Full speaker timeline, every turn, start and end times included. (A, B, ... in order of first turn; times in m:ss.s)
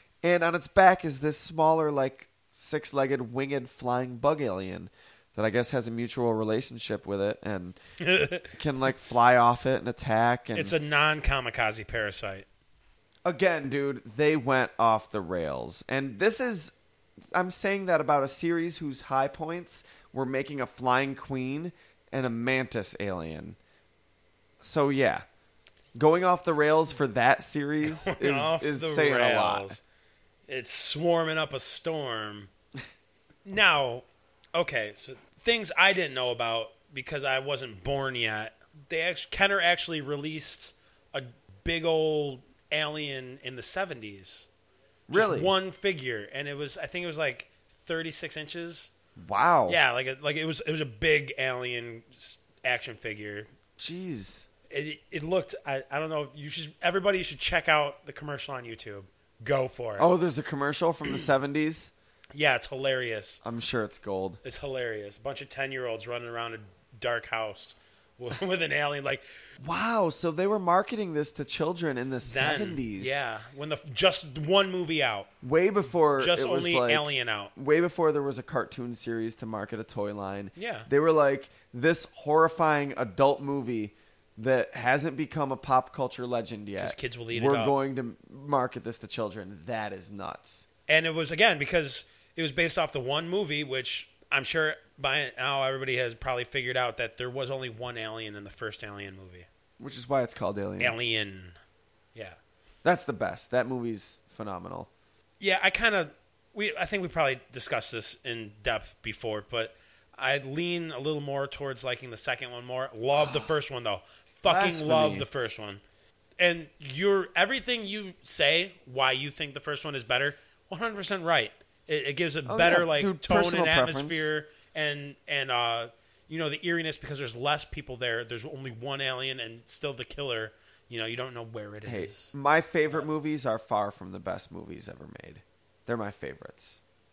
0:00.2-0:07.8 A
0:08.0-0:09.2 B
0:08.5-0:10.8 A
0:10.6-0:12.5 B
0:13.2-0:16.8 A
0:17.3-0:23.6 A
0:24.6-0:25.2 A
0:26.0-0:29.8 A
0:27.8-0:29.8 B
0:30.5-0:32.5 B
0:33.5-0:44.5 B
0:45.1-0:45.5 A
0:45.1-0:48.9 B
0:49.2-0:49.8 A
0:49.7-0:53.5 B
0:53.8-0:54.5 A
0:54.7-1:00.1 B
1:00.0-1:01.9 A
1:02.4-1:03.4 B
1:03.4-1:04.4 A
1:04.4-1:09.2 B
1:09.6-1:13.2 A
1:12.2-1:15.3 B
1:15.4-1:30.7 A
1:16.2-1:17.5 B
1:20.6-1:20.9 B
1:26.8-1:27.8 B
1:30.9-1:39.5 B
1:39.8-1:41.0 A
1:40.8-1:41.6 B
1:42.8-1:44.9 A
1:45.4-1:55.8 B
1:53.2-1:53.5 A
1:54.4-1:55.3 A
1:56.4-2:12.4 B
2:02.5-2:04.3 A
2:11.9-2:16.8 A